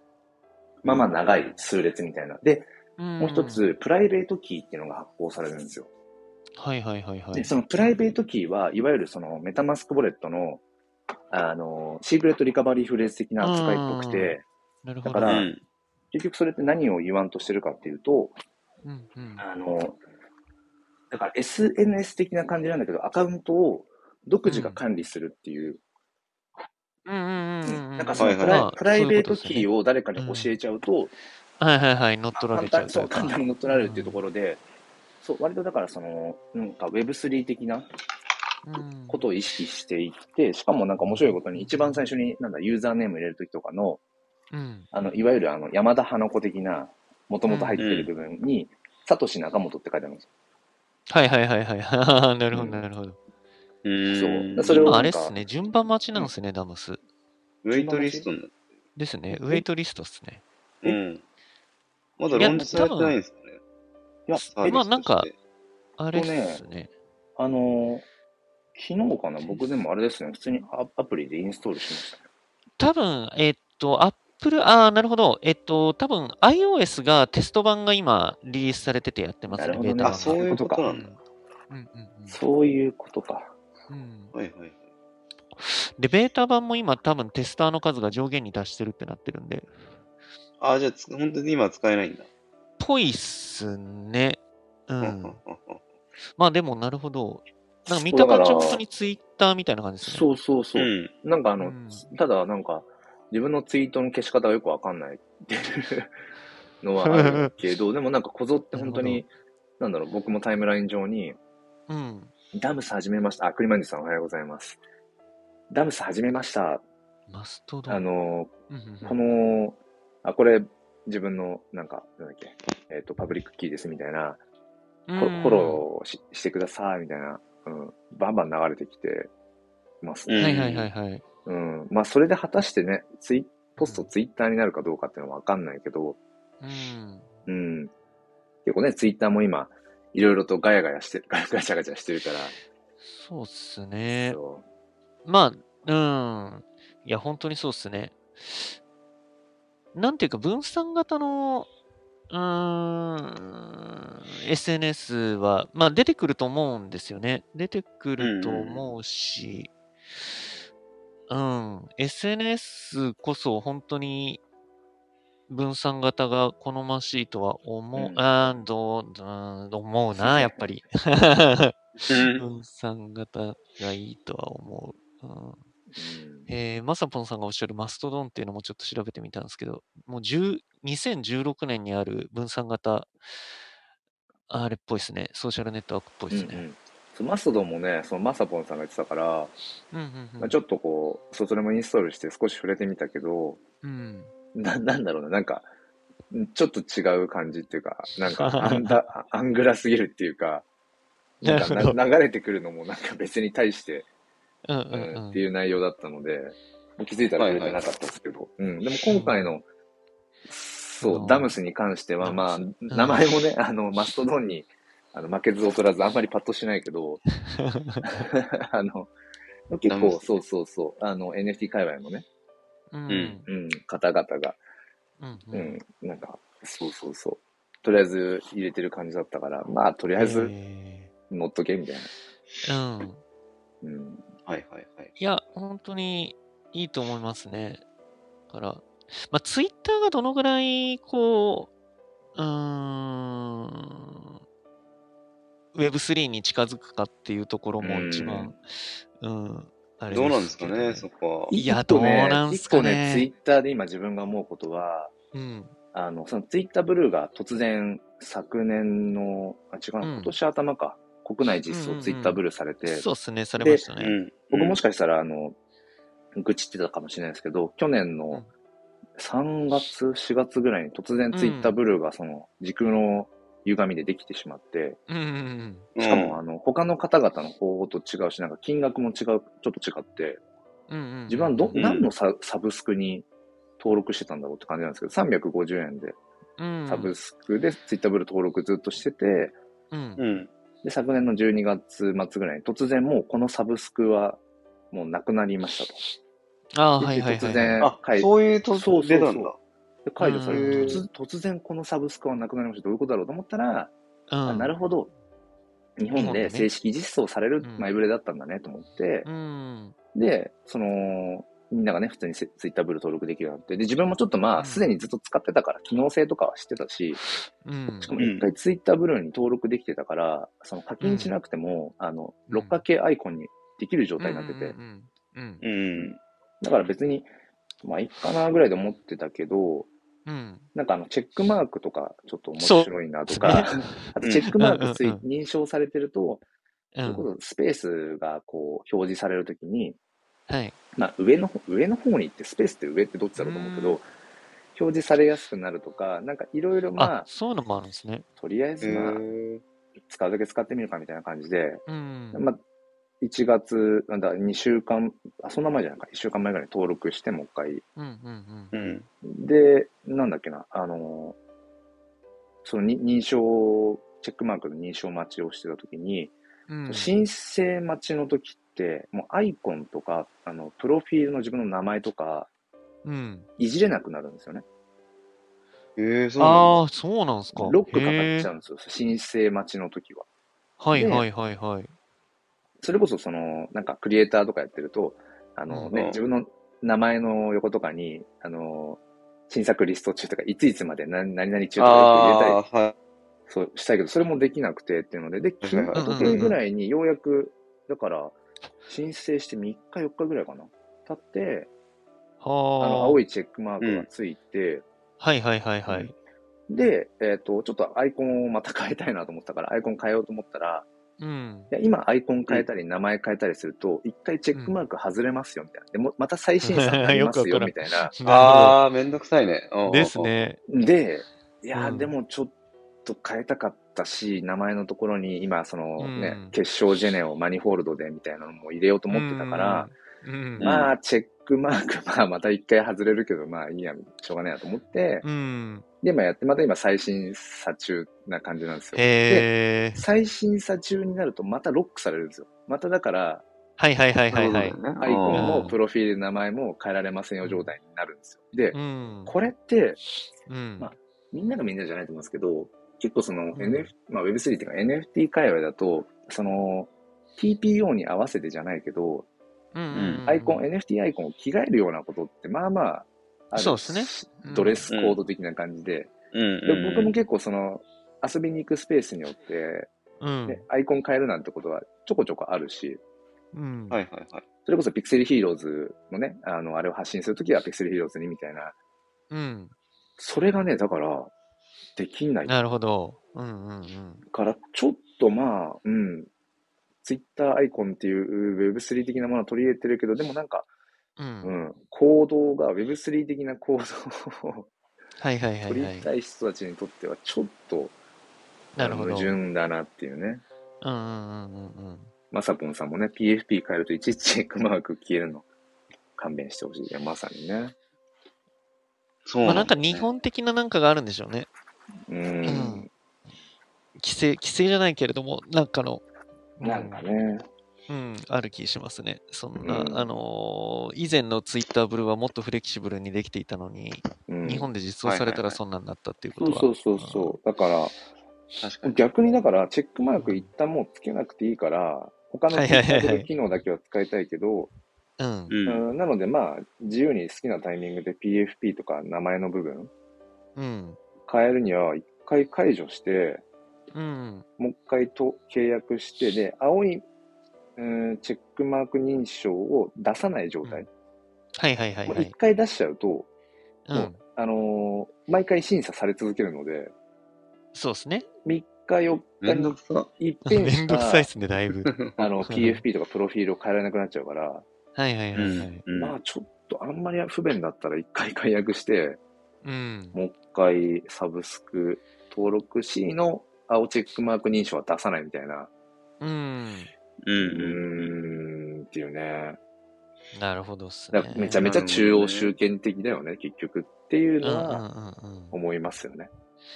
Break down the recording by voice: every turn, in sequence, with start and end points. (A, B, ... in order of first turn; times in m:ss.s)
0:00.8-0:01.1 A
0:00.8-0:02.7 B
0:03.0-0:03.6 C
0:03.2-0:05.9 B
0:06.6-0:08.0 C
0:07.3-0:10.6 B
0:11.3-0:14.4 B
0:13.4-0:15.4 C
0:15.0-0:15.5 B
0:15.2-0:15.6 A
0:16.1-0:18.3 B
0:18.8-0:19.4 C
0:19.4-0:20.0 B
0:21.1-0:25.8 B
0:24.5-0:24.8 C
0:27.1-0:30.5 C
0:27.6-0:31.1 B
0:28.2-0:28.7 A
0:31.6-0:34.2 C
0:32.4-0:34.6 B
0:35.2-0:37.9 B
0:38.6-0:39.2 C
0:39.1-0:44.0 B
0:41.0-0:42.0 C
0:44.5-0:44.9 C
0:44.9-0:50.3 B
0:47.5-0:47.8 C
0:47.8-0:48.1 A
0:51.1-0:53.2 C
0:53.8-0:55.0 A
0:54.1-0:55.4 B
0:54.7-0:57.0 C
0:57.6-0:58.5 A
0:57.7-0:58.3 B
0:59.0-1:00.4 C
0:59.3-0:59.6 B
1:00.8-1:01.2 A
1:02.2-1:03.6 A
1:02.3-1:03.2 C
1:02.4-1:02.8 B
1:04.3-1:04.8 B
1:04.4-1:05.3 C
1:04.5-1:05.3 A
1:06.0-1:06.9 C
1:06.1-1:06.6 B
1:07.4-1:08.0 B
1:08.8-1:12.2 B
1:09.4-1:09.7 C
1:12.8-1:22.4 C
1:19.5-1:20.9 B
1:20.0-1:21.1 A
1:22.3-1:23.5 B
1:23.9-1:24.3 C
1:24.3-1:24.8 A
1:25.6-1:29.7 C
1:30.6-1:32.3 A
1:32.8-1:35.4 C
1:35.0-1:35.8 A
1:36.4-1:40.2 C
1:37.9-1:38.8 B
1:40.0-1:46.1 B
1:40.8-1:41.1 A
1:41.6-1:42.1 C
1:46.8-1:51.4 B
1:47.0-1:47.5 C
1:48.7-1:49.2 C
1:51.9-1:52.3 C
1:52.5-1:54.8 B
1:55.7-1:56.8 B
1:57.3-1:58.0 C
1:57.9-1:58.5 B
1:58.7-1:59.2 C
1:59.0-2:04.4 B
2:05.1-2:05.8 C
2:05.2-2:09.3 B
2:10.0-2:10.8 B
2:10.3-2:10.9 A
2:10.4-2:11.2 C
2:11.4-2:16.2 B
2:13.8-2:14.1 C
2:16.6-2:17.3 C
2:17.5-2:17.9 B
2:18.6-2:22.6 B
2:23.1-2:24.4 C
2:24.2-2:24.6 B
2:25.2-2:28.7 C
2:29.9-2:31.7 C
2:32.3-2:39.7 C
2:38.2-2:38.9 A
2:41.3-2:44.4 C
2:45.5-2:55.6 C
2:48.0-2:48.2 B
2:50.2-2:50.6 B
2:52.1-2:52.4 A
2:56.0-2:56.5 B
2:56.5-3:03.1 C
3:04.5-3:06.6 C
3:06.3-3:09.5 B
3:09.9-3:10.6 C
3:10.4-3:13.6 B
3:13.8-3:14.3 C
3:14.6-3:15.7 B
3:16.3-3:20.6 B
3:18.3-3:19.0 C
3:21.4-3:24.1 B
3:21.4-3:22.0 C
3:24.7-3:25.4 C
3:24.9-3:29.6 B
3:27.4-3:27.8 A
3:29.1-3:29.5 C
3:30.5-3:37.2 B
3:31.0-3:31.5 C
3:32.2-3:33.2 C
3:37.5-3:38.0 C
3:38.0-3:39.1 B
3:39.7-3:42.2 B
3:39.9-3:40.3 A
3:42.9-3:43.5 C
3:43.1-3:43.4 A
3:43.5-3:44.6 B
3:45.2-3:45.8 C
3:45.5-3:50.5 B
3:50.2-3:51.1 C
3:51.3-3:52.1 B
3:52.6-3:53.2 C
3:53.8-3:54.2 B
3:54.5-3:55.1 A
3:55.2-3:57.8 C
3:58.5-4:01.7 C
4:02.4-4:04.4 C
4:05.7-4:08.6 C
4:07.8-4:08.6 B
4:09.2-4:13.3 C
4:10.1-4:11.5 A
4:11.5-4:15.1 B
4:15.3-4:15.7 C
4:15.9-4:23.1 B
4:20.0-4:20.4 C
4:21.7-4:24.2 C
4:23.6-4:23.8 B
4:24.0-4:24.8 A
4:24.5-4:25.6 B
4:26.4-4:28.4 B
4:29.2-4:35.0 B
4:31.3-4:31.8 C
4:35.1-4:35.9 C
4:36.0-4:36.4 A
4:36.0-4:40.4 B
4:40.9-4:41.8 C
4:41.3-4:43.3 B
4:41.7-4:42.1 A
4:43.8-4:46.2 B
4:46.6-4:47.1 C
4:46.9-4:49.6 B
4:49.9-4:50.2 C
4:50.2-4:50.5 A
4:50.8-4:56.0 B
4:56.8-4:57.8 C
4:57.0-4:59.5 B
4:57.8-4:59.6 A
5:00.1-5:03.9 B
5:00.2-5:01.0 C
5:00.5-5:01.0 A
5:04.3-5:04.7 C
5:04.5-5:05.1 B
5:06.0-5:09.3 B
5:06.1-5:06.7 C
5:07.6-5:07.9 C
5:09.2-5:10.0 C
5:10.1-5:17.2 B
5:14.6-5:14.8 C
5:17.6-5:18.1 C
5:18.0-5:24.8 B
5:18.2-5:18.5 A
5:21.0-5:21.4 C
5:22.5-5:22.8 C
5:24.2-5:25.6 C
5:25.6-5:26.2 A
5:26.6-5:27.3 B
5:27.8-5:29.9 B
5:30.3-5:30.7 C
5:30.7-5:36.4 B
5:32.6-5:35.2 C
5:34.2-5:34.5 A
5:36.9-5:37.3 C
5:37.0-5:40.0 B
5:40.5-5:40.8 C
5:41.0-5:44.1 B
5:43.4-5:44.0 C
5:44.8-5:47.3 B
5:47.0-5:48.3 C
5:48.4-5:49.2 B
5:48.8-5:49.6 A
5:50.1-5:52.6 B
5:51.9-5:52.4 C
5:53.2-5:57.8 B
5:58.0-5:58.7 C
5:58.7-5:59.1 A
5:59.2-6:01.4 B
6:02.6-6:06.4 B
6:06.7-6:07.1 C
6:06.9-6:12.5 B
6:13.0-6:13.5 C
6:13.6-6:14.6 B
6:16.0-6:16.8 A
6:16.4-6:18.5 C
6:17.6-6:20.3 B
6:20.8-6:21.9 C
6:20.9-6:21.3 B
6:22.8-6:32.6 B
6:25.9-6:26.2 A
6:31.8-6:33.0 A
6:33.5-6:41.7 B
6:35.6-6:36.5 A
6:36.0-6:36.6 C
6:42.4-6:43.2 C
6:42.8-6:44.8 B
6:43.8-6:44.1 A
6:45.2-6:46.1 C
6:46.7-6:50.9 B
6:51.2-6:51.7 C
6:51.7-6:58.1 B
6:56.6-6:58.8 C
6:58.2-7:00.3 A
6:59.9-7:00.6 C
7:00.7-7:02.5 B
7:01.7-7:02.1 C
7:03.0-7:09.9 B
7:06.0-7:06.6 C
7:09.1-7:10.7 C
7:10.6-7:10.9 A
7:10.6-7:15.3 B
7:15.2-7:15.8 C
7:16.0-7:23.4 B
7:18.9-7:20.0 C
7:23.8-7:24.8 C
7:24.3-7:25.7 A
7:25.0-7:30.0 B
7:25.3-7:25.8 C
7:27.4-7:27.8 C
7:28.7-7:29.3 C
7:30.5-7:30.9 C
7:30.8-7:39.3 B
7:33.6-7:33.9 C
7:39.7-7:40.6 C
7:39.9-7:40.2 A
7:40.3-7:46.1 B
7:43.6-7:44.9 C
7:44.9-7:45.2 A
7:46.3-7:47.2 A
7:46.6-7:49.9 B
7:50.2-7:50.6 C
7:50.5-7:53.0 B
7:53.5-7:54.0 C
7:53.9-7:54.4 A
7:54.7-7:58.7 B
7:59.3-7:59.7 C
8:00.2-8:01.3 B
8:02.0-8:02.5 B
8:02.5-8:04.2 C
8:04.3-8:06.3 B
8:07.0-8:10.7 B
8:11.2-8:11.6 C
8:11.4-8:14.7 B
8:15.2-8:16.1 C
8:15.7-8:17.9 B
8:18.8-8:19.4 C
8:18.8-8:20.4 B
8:20.8-8:22.1 C
8:22.3-8:25.4 B
8:26.2-8:27.8 B
8:29.3-8:30.1 A
8:29.4-8:31.5 C
8:32.1-8:32.9 B
8:32.4-8:32.9 C
8:34.0-8:36.0 C
8:36.6-8:37.0 C
8:36.6-8:37.4 B
8:37.9-8:47.4 C
8:39.6-8:40.1 B
8:44.3-8:44.7 B
8:45.0-8:45.6 A
8:46.4-8:48.0 B
8:48.6-8:49.0 A
8:48.8-8:54.7 B
8:50.2-8:50.5 C
8:52.5-8:53.3 C
8:55.2-8:55.6 C
8:55.5-8:55.8 A
8:55.7-8:59.9 B
9:00.6-9:01.0 C
9:01.3-9:03.4 B
9:03.9-9:04.5 C
9:04.6-9:07.0 B
9:07.8-9:10.9 B
9:11.6-9:12.3 C
9:12.1-9:13.3 B
9:13.9-9:14.2 C
9:13.9-9:16.9 B
9:17.7-9:18.3 C
9:18.4-9:21.3 B
9:19.4-9:20.1 A
9:20.5-9:21.9 C
9:21.9-9:22.3 A
9:22.2-9:24.6 B
9:22.4-9:22.8 C
9:25.0-9:25.8 C
9:25.4-9:26.2 A
9:26.0-9:29.2 B
9:29.6-9:30.2 C
9:30.1-9:35.7 B
9:36.2-9:36.9 C
9:37.2-9:38.1 A
9:37.4-9:39.6 B
9:40.3-9:41.7 C
9:41.1-9:44.8 B
9:41.6-9:42.5 A
9:44.4-9:45.6 C
9:45.5-9:46.3 B